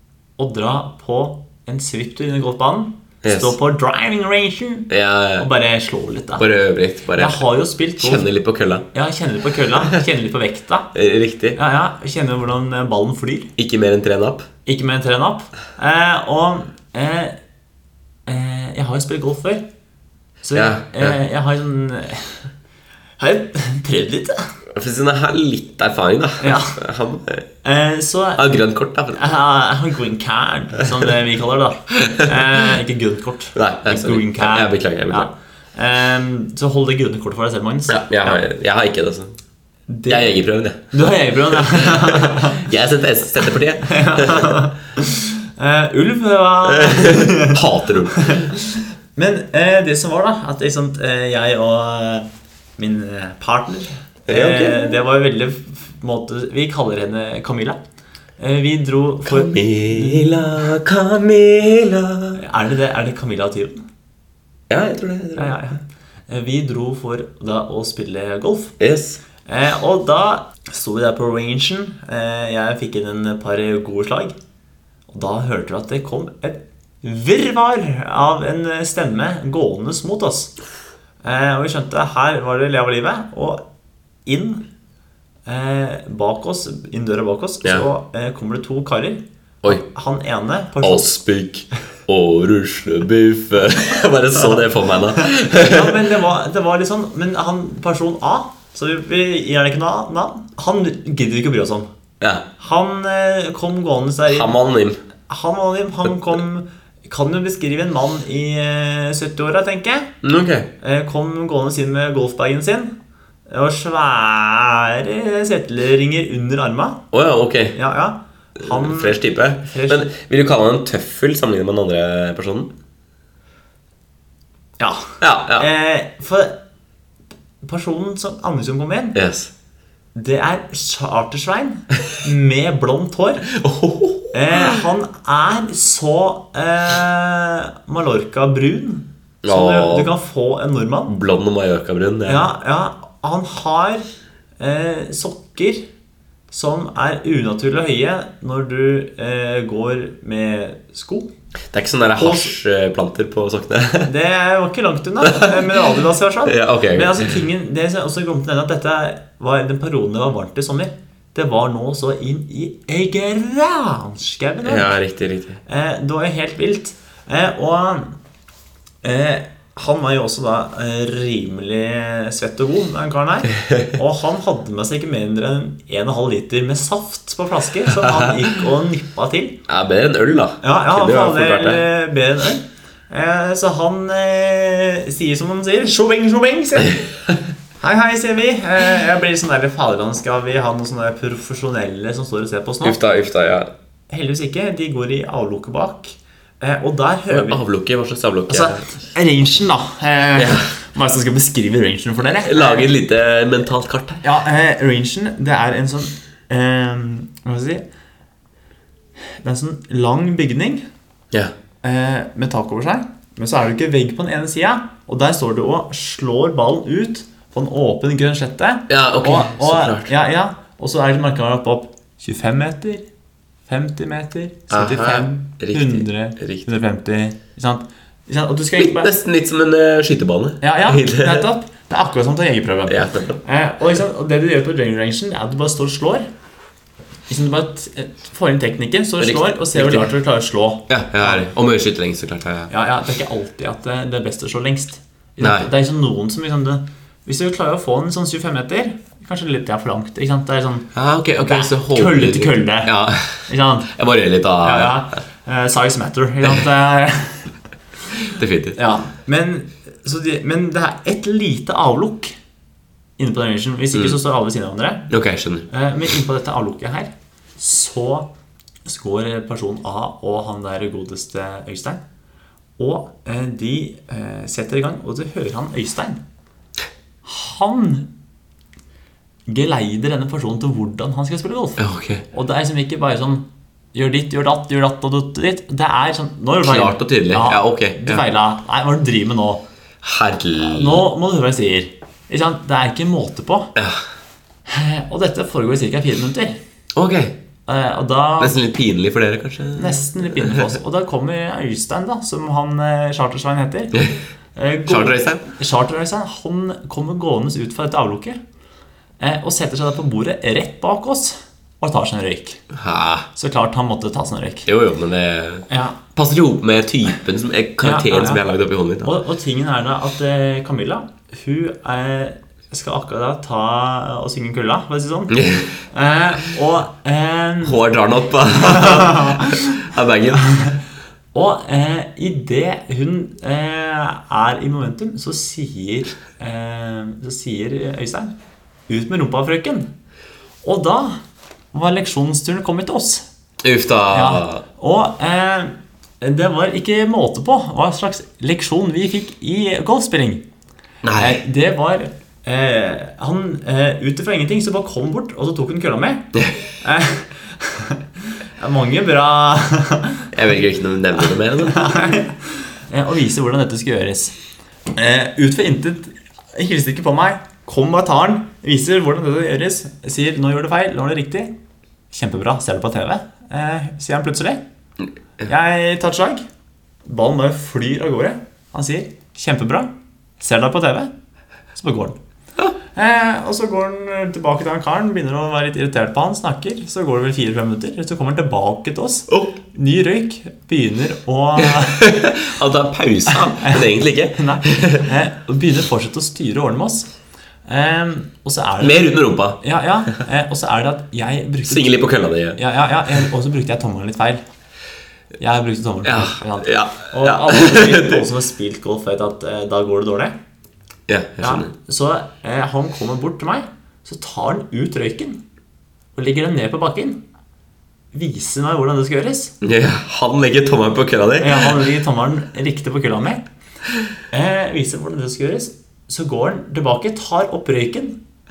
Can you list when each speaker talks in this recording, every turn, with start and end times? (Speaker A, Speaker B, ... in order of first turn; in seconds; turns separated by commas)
Speaker A: 0.4-6.5, Speaker B: 3.2-3.5, Speaker B: 4.9-5.5, Speaker B: 6.4-7.5, Speaker A: 7.1-8.3, Speaker B: 8.0-8.9, Speaker A: 8.9-10.9, Speaker B: 10.9-11.6, Speaker A: 11.6-13.5, Speaker B: 13.6-14.5, Speaker A: 14.7-17.4, Speaker A: 18.3-19.6, Speaker A: 20.4-22.5, Speaker B: 20.5-21.2, Speaker A: 23.2-24.4, Speaker B: 24.8-27.5, Speaker A: 26.4-26.8, Speaker A: 27.6-28.5, Speaker B: 28.4-29.4, Speaker A: 29.1-38.4, Speaker B: 31.9-32.4, Speaker B: 33.5-35.3, Speaker B: 37.9-39.3, Speaker A: 39.9-40.4, Speaker B: 40.1-40.9, Speaker A: 40.9-42.7, Speaker B: 41.7-44.6, Speaker A: 43.8-52.3, Speaker B: 46.7-48.5, Speaker A: 52.8-57.8, Speaker B: 54.3-55.0, Speaker A: 58.4-60.6, Speaker B: 59.2-62.4, Speaker A: 62.3-63.8, Speaker B: 64.7-65.6, Speaker A: 65.4-68.8, Speaker B: 68.8-69.2, Speaker A: 69.5-74.4, Speaker A: 75.1-80.5, Speaker A: 81.2-83.6, Speaker A: 84.3-84.6, Speaker A: 85.5-91.1, Speaker B: 90.8-96.0, Speaker A: 95.2-101.9, Speaker B: 102.2-102.5, Speaker A: 102.6-104.5, Speaker B: 104.3-105.0, Speaker A: 105.3-110.1, Speaker B: 110.2-110.7, Speaker A: 110.8-113.0, Speaker A: 113.5-117.0, Speaker B: 117.1-117.8, Speaker A: 117.8-120.1, Speaker B: 118.6-122.7, Speaker A: 124.8-126.6, Speaker B: 125.2-125.7, Speaker A: 127.6-129.2, Speaker B: 129.1-129.5, Speaker A: 130.2-133.5, Speaker B: 133.5-134.8, Speaker A: 134.3-141.1, Speaker B: 139.4-140.1, Speaker B: 141.1-142.5, Speaker A: 142.3-144.1, Speaker A: 144.6-145.9, Speaker A: 146.5-151.3, Speaker B: 151.7-154.1, Speaker A: 152.2-152.5, Speaker A: 154.1-165.0, Speaker B: 155.2-155.9, Speaker B: 156.5-157.4, Speaker B: 164.7-165.6, Speaker A: 165.7-168.2, Speaker A: 169.0-179.6, Speaker B: 179.7-181.8, Speaker A: 180.6-187.1, Speaker A: 187.8-193.0, Speaker B: 192.8-193.7, Speaker A: 194.1-197.6, Speaker B: 197.3-198.8, Speaker A: 198.5-202.9, Speaker B: 200.3-200.7, Speaker B: 202.4-204.2, Speaker A: 204.2-207.8, Speaker A: 209.4-210.8, Speaker A: 211.8-223.1, Speaker B: 218.9-220.1, Speaker A: 223.7-229.1, Speaker B: 224.7-226.7, Speaker B: 228.8-231.5, Speaker A: 230.6-236.3, Speaker B: 232.9-233.4, Speaker A: 237.3-241.5, Speaker B: 239.2-240.1, Speaker B: 240.9-242.7, Speaker A: 242.7-250.9, Speaker B: 245.4-245.7, Speaker B: 250.9-255.1, Speaker A: 251.4-253.9, Speaker A: 254.6-257.5, Speaker B: 258.2-258.8, Speaker A: 258.8-262.4, Speaker A: 263.2-265.1, Speaker B: 265.1-265.7, Speaker A: 265.7-268.3, Speaker A: 268.9-272.0, Speaker A: 272.8-276.2, Speaker A: 277.2-278.1, Speaker A: 279.5-289.6, Speaker B: 281.8-282.2, Speaker B: 286.6-288.2, Speaker B: 290.0-291.0, Speaker A: 290.6-293.7, Speaker B: 293.8-294.0, Speaker A: 294.7-296.6, Speaker B: 296.9-297.4, Speaker A: 297.7-298.6, Speaker B: 298.4-300.8, Speaker A: 299.8-308.4, Speaker B: 304.9-305.4, Speaker A: 309.2-312.6, Speaker B: 312.7-313.3, Speaker A: 313.4-314.7, Speaker B: 314.7-319.2, Speaker A: 315.7-316.0, Speaker A: 317.8-318.4, Speaker A: 319.0-327.9, Speaker B: 325.3-325.7, Speaker B: 327.6-330.8, Speaker A: 328.5-329.8, Speaker A: 331.3-338.3, Speaker A: 338.9-339.9, Speaker A: 340.6-341.2, Speaker A: 341.7-343.2, Speaker B: 343.6-344.6, Speaker A: 344.1-350.4, Speaker B: 351.0-351.4, Speaker A: 351.2-360.3, Speaker B: 360.3-361.9, Speaker A: 361.6-364.4, Speaker A: 364.9-371.5, Speaker A: 372.1-374.6, Speaker A: 375.4-376.4, Speaker A: 377.1-381.1, Speaker A: 381.7-382.2, Speaker A: 382.9-392.0, Speaker B: 389.3-389.6, Speaker B: 391.6-395.1, Speaker A: 393.3-397.1, Speaker A: 397.7-399.1, Speaker B: 398.8-399.6, Speaker A: 399.6-402.0, Speaker B: 401.7-402.6, Speaker A: 402.6-404.4, Speaker A: 405.4-410.4, Speaker B: 406.0-408.3, Speaker B: 411.1-411.7, Speaker A: 411.4-415.4, Speaker A: 416.1-417.2, Speaker A: 418.1-419.6, Speaker B: 419.6-421.8, Speaker A: 421.4-423.5, Speaker A: 424.3-428.2